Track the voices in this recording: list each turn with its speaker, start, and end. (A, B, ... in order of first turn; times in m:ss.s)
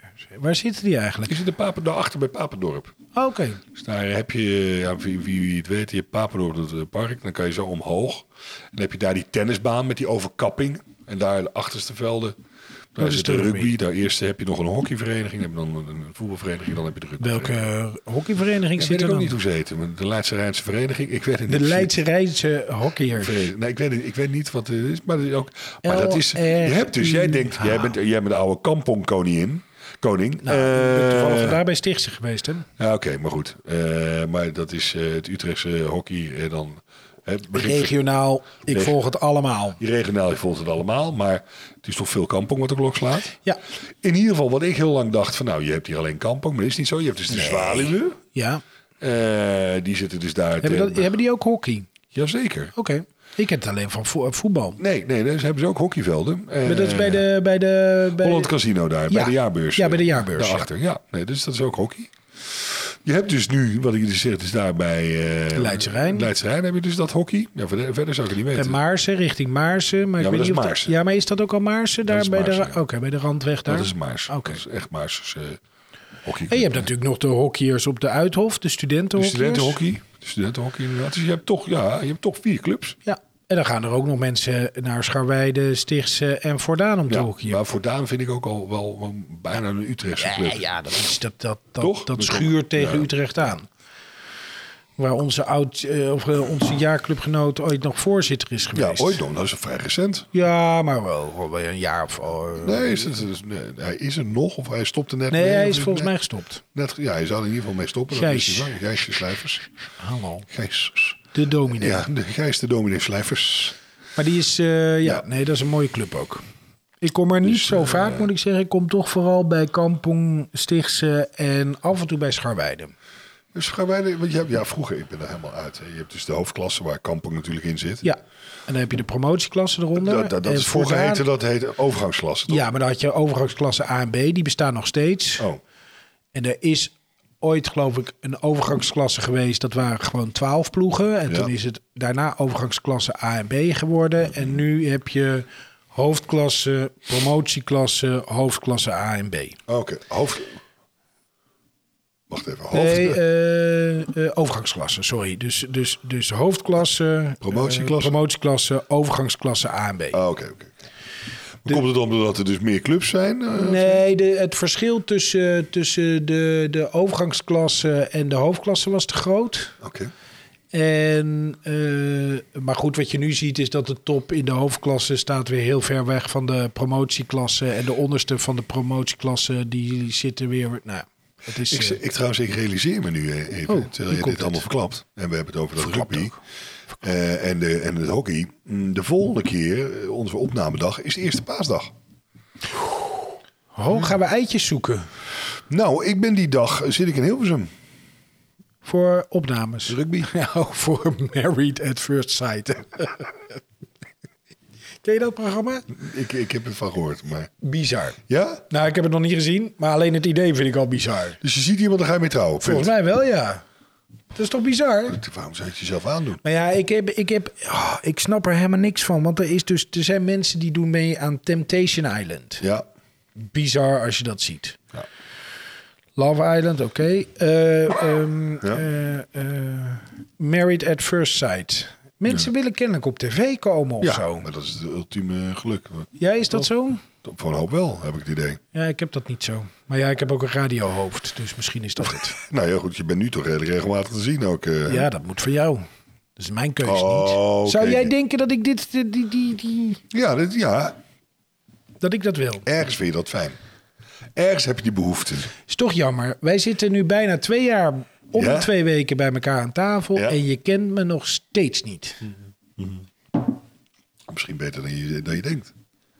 0:00.2-0:01.4 A
0:01.3-0:02.9 B
0:03.1-0:03.6 A
0:03.7-0:12.4 B
0:13.0-0:17.6 B
0:13.0-0:13.7 A
0:17.2-0:19.4 A
0:18.8-0:22.0 B
0:21.5-0:23.4 A
0:23.2-0:31.6 B
0:25.8-0:27.9 A
0:30.4-0:32.7 A
0:32.8-0:38.0 B
0:37.5-0:39.8 A
0:38.7-0:39.0 B
0:39.8-0:43.3 B
0:44.0-0:48.2 B
0:47.3-0:48.6 A
0:49.0-0:51.1 B
0:50.6-0:51.9 A
0:52.1-0:52.7 B
0:52.7-0:54.8 A
0:54.8-0:57.2 B
0:56.6-0:58.5 A
0:58.1-1:08.8 B
0:59.1-1:00.7 A
1:05.5-1:06.3 A
1:08.5-1:14.6 A
1:10.2-1:10.9 B
1:12.1-1:12.8 B
1:13.7-1:15.6 B
1:16.2-1:16.9 B
1:16.5-1:19.8 A
1:19.2-1:23.0 B
1:23.0-1:27.6 A
1:27.1-1:30.7 B
1:30.2-1:33.7 A
1:31.8-1:33.1 B
1:35.0-1:39.2 A
1:38.7-1:40.3 B
1:40.3-1:43.1 A
1:42.6-1:46.1 B
1:45.3-1:46.6 A
1:46.7-1:49.6 B
1:48.1-1:48.8 A
1:50.0-1:50.5 A
1:50.5-1:51.2 B
1:51.3-1:52.0 A
1:51.7-1:53.8 B
1:54.2-1:56.4 A
1:57.0-2:02.9 A
1:57.4-1:58.3 B
2:03.5-2:08.0 B
2:08.0-2:11.2 A
2:09.9-2:12.6 B
2:12.5-2:15.5 A
2:16.3-2:29.6 A
2:29.7-2:30.6 B
2:32.3-2:33.2 B
2:32.7-2:40.2 A
2:37.4-2:38.1 B
2:40.1-2:40.7 B
2:41.6-2:44.0 B
2:43.6-2:49.7 A
2:49.8-2:50.1 B
2:50.7-3:02.0 A
3:01.7-3:06.3 B
3:03.7-3:04.6 A
3:05.8-3:06.4 A
3:07.0-3:11.9 B
3:13.8-3:15.0 A
3:15.7-3:17.7 B
3:18.8-3:23.6 A
3:19.9-3:20.3 B
3:25.0-3:25.9 A
3:25.9-3:27.5 B
3:27.6-3:28.2 A
3:28.3-3:28.6 B
3:28.7-3:31.4 A
3:31.4-3:32.9 B
3:32.6-3:33.6 A
3:34.3-3:35.2 A
3:35.1-3:36.4 B
3:36.4-3:42.6 A
3:43.4-3:44.8 A
3:46.2-3:54.5 A
3:54.0-3:56.1 B
3:56.2-3:57.0 A
3:57.2-3:58.6 B
3:58.7-4:02.4 A
4:02.3-4:05.1 B
4:04.9-4:05.8 A
4:06.4-4:10.0 A
4:06.8-4:08.1 B
4:10.1-4:11.0 B
4:12.0-4:12.7 A
4:12.6-4:13.6 B
4:14.4-4:15.5 B
4:15.7-4:22.2 A
4:18.3-4:18.7 B
4:22.8-4:23.0 B
4:24.3-4:25.7 B